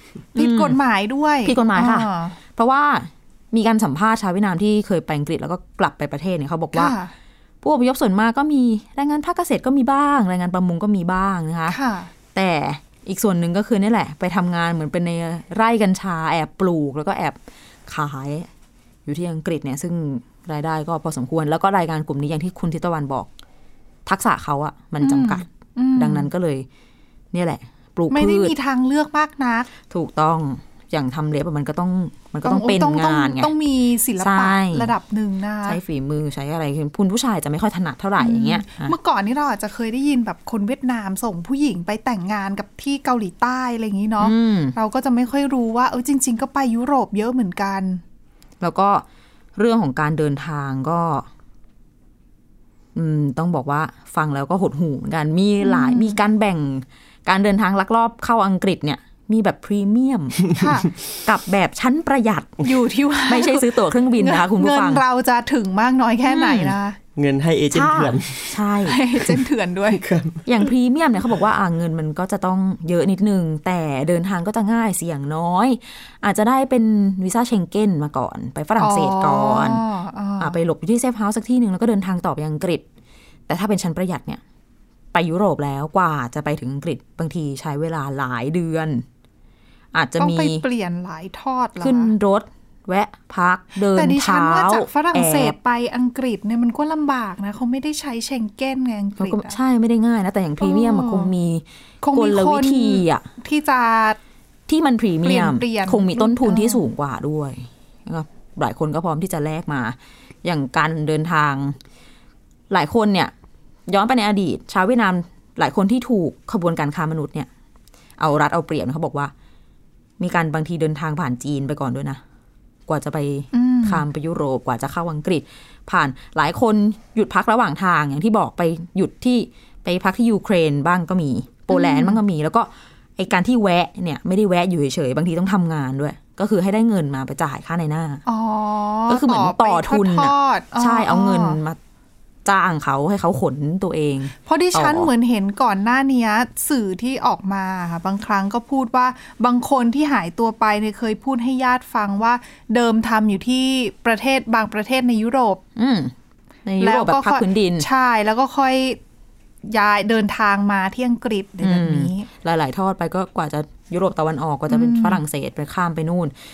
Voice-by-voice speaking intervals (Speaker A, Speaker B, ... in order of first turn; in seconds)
Speaker A: 0.3-2.4, 6.7-7.1, 11.7-12.1, 25.0-26.3, 28.1-29.7, 32.4-35.8, 38.2-48.0, 55.6-56.2, 60.5-60.9, 62.6-67.0, 68.9-70.0, 78.8-80.6, 90.2-92.1, 93.9-99.6, 100.6-101.3, 102.0-104.2, 105.2-106.8, 123.5-124.0, 131.7-132.2, 138.3-141.6, 144.5-155.6, 156.8-159.0, 159.7-162.3, 164.7-165.2
Speaker B: 0.4-0.8, 1.4-6.9, 7.6-11.8, 12.3-18.5, 19.1-23.3, 24.1-25.4, 26.0-26.7, 27.3-28.5, 29.9-33.5, 34.2-34.9, 35.7-39.0, 44.2-44.8, 48.6-51.3, 53.0-60.4, 61.2-62.6, 63.3-65.0, 66.3-66.8, 67.7-69.0, 70.5-79.8, 80.4-82.8, 83.5-84.4, 85.1-89.0, 89.9-90.7, 91.8-95.6, 99.2-103.2, 104.7-111.8, 112.7-113.3, 113.9-117.5, 118.2-119.3, 120.2-122.2, 122.9-138.2, 139.1-141.8, 142.4-145.1, 155.8-156.1, 156.7-157.9, 161.6-166.3
Speaker C: 67.2-68.6, 69.9-70.7